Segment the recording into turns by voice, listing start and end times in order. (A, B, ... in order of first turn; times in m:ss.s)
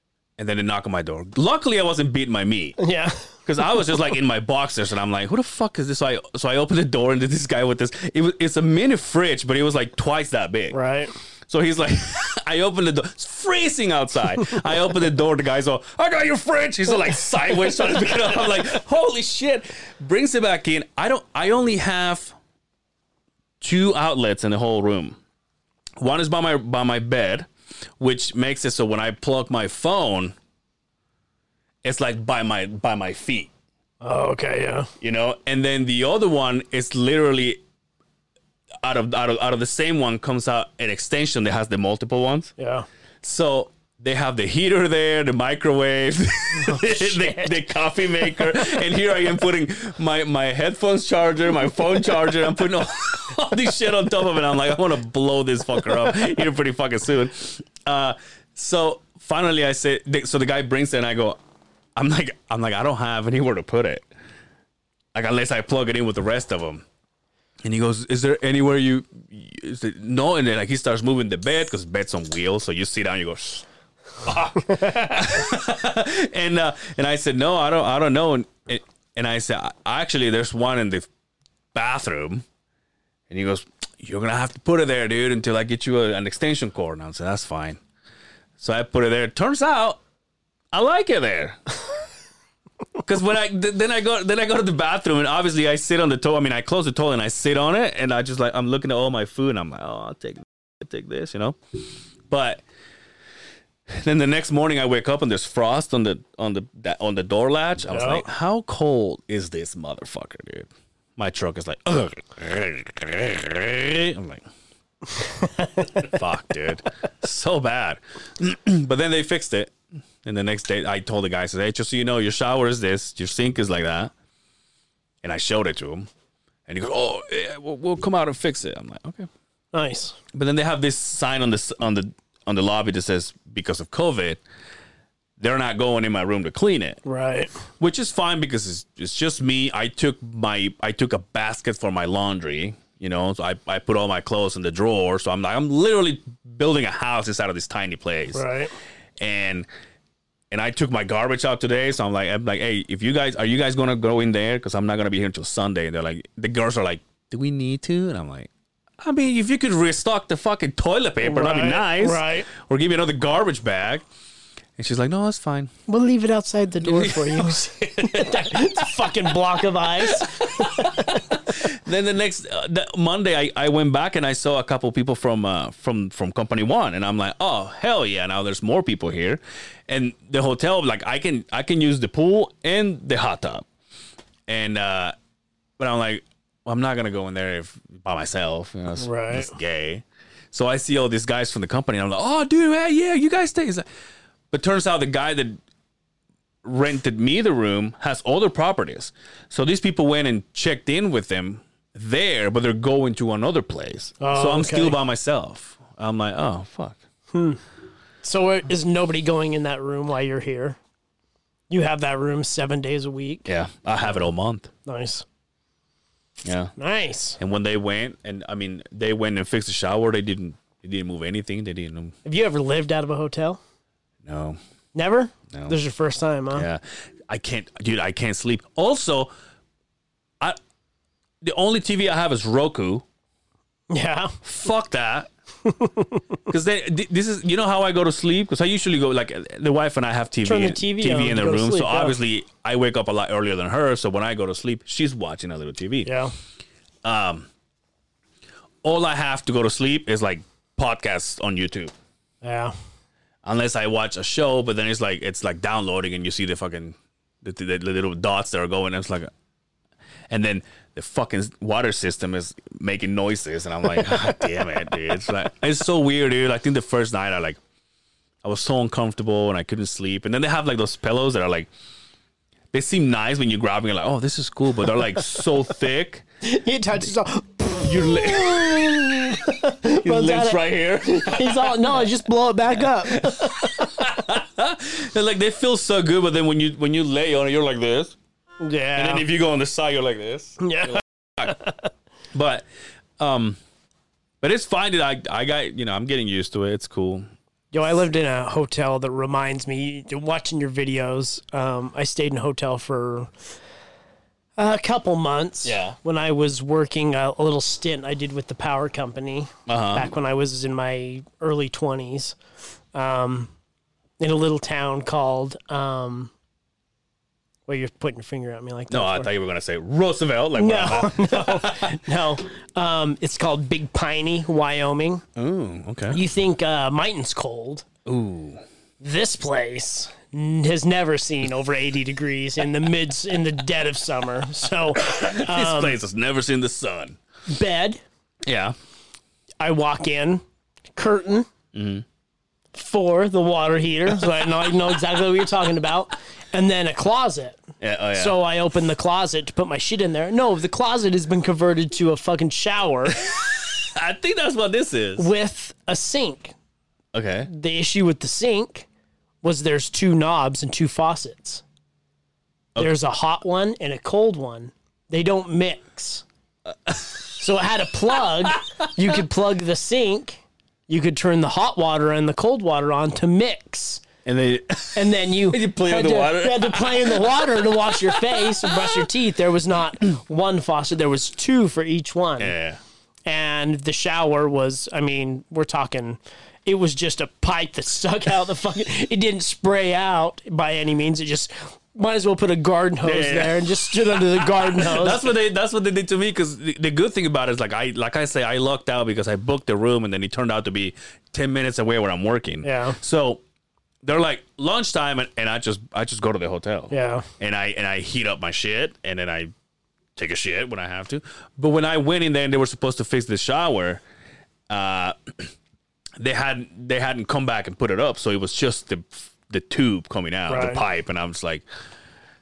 0:00.4-0:02.8 A
0:02.8-0:03.3 B
0:03.4-0:10.8 A
0:10.7-0:11.1 B
0:11.5-0:22.4 A
0:23.6-0:25.2 A
0:26.0-0:27.5 A
0:28.0-0:30.3 A
0:31.8-0:33.5 A
0:34.0-0:34.9 B
0:35.0-0:37.6 A
0:38.8-0:42.5 A
0:42.6-0:42.9 B
0:43.2-1:01.4 A
0:46.6-0:47.5 B
1:02.0-1:04.1 A
1:05.1-1:06.8 A
1:07.6-1:13.6 A
1:14.2-1:21.1 A
1:21.7-1:22.4 A
1:23.3-1:27.8 A
1:28.6-1:30.0 A
1:30.7-1:31.6 A
1:33.0-1:42.6 A
1:43.9-1:54.4 A
1:47.9-1:48.2 B
1:56.0-2:04.1 A
2:05.2-2:06.1 A
2:06.7-2:09.3 A
2:09.7-2:10.2 B
2:10.3-2:14.4 A
2:15.4-2:17.0 A
2:17.0-2:17.5 B
2:17.8-2:28.4 A
2:28.3-2:28.7 B
2:29.2-2:29.7 A
2:30.5-2:38.5 A
2:39.0-2:44.0 A
2:41.2-2:42.5 B
2:44.8-2:45.7 A
2:45.9-2:51.1 B
2:46.8-2:48.9 A
2:50.0-3:03.6 A
3:04.5-3:05.1 A
3:05.8-3:13.8 A
3:09.0-3:09.5 B
3:14.5-3:15.6 A
3:16.6-3:27.0 A
3:24.2-3:25.0 B
3:27.3-3:27.6 B
3:28.2-3:30.8 B
3:31.7-3:33.5 B
3:33.5-3:34.7 A
3:34.8-3:35.2 B
3:36.4-3:36.7 A
3:36.8-3:37.4 B
3:37.4-3:42.2 A
3:42.2-3:43.6 B
3:44.2-3:44.6 A
3:44.9-3:46.7 B
3:46.5-3:49.3 A
3:51.4-3:53.0 A
3:53.9-3:54.4 B
3:54.4-3:55.3 A
3:55.7-3:56.2 B
3:56.5-4:06.1 A
4:00.4-4:02.2 B
4:06.0-4:06.3 B
4:07.0-4:07.5 A
4:08.8-4:11.9 A
4:12.4-4:12.7 B
4:13.4-4:19.3 A
4:20.3-4:27.6 A
4:28.4-4:31.7 A
4:32.7-4:36.2 A
4:36.4-4:43.9 B
4:37.8-4:42.0 A
4:43.0-4:48.2 A
4:48.6-4:49.2 B
4:49.0-4:51.6 A
4:50.6-4:51.7 B
4:52.3-4:52.6 A
4:53.2-4:53.6 A
4:54.4-4:57.3 A
4:57.7-5:03.3 B
5:04.6-5:12.4 B
5:05.6-5:06.0 A
5:09.7-5:10.1 A
5:12.9-5:13.5 B
5:14.2-5:16.3 B
5:17.7-5:19.3 B
5:18.9-5:22.0 A
5:20.6-5:25.2 B
5:25.4-5:26.2 A
5:26.1-5:27.8 B
5:28.0-5:28.6 A
5:29.0-5:36.0 B
5:35.0-5:37.2 A
5:37.5-5:38.0 B
5:38.4-5:38.8 A
5:39.6-5:40.4 B
5:41.0-5:41.5 B
5:41.7-5:42.0 A
5:42.7-5:47.6 B
5:47.8-5:48.4 A
5:48.1-5:53.3 B
5:53.2-5:55.3 A
5:55.2-5:56.5 B
5:57.1-5:57.5 A
5:57.5-5:58.9 B
5:59.4-6:01.6 B
6:02.8-6:06.2 B
6:06.8-6:07.4 A
6:07.4-6:14.0 B
6:14.2-6:19.0 A
6:15.0-6:22.5 B
6:22.4-6:22.8 A
6:23.2-6:35.3 B
6:33.0-6:43.4 A
6:42.6-6:43.0 B
6:44.0-6:49.5 A
6:46.9-6:47.3 B
6:50.2-6:54.0 A
6:54.7-6:55.5 A
6:56.2-7:01.6 A
7:00.5-7:00.8 B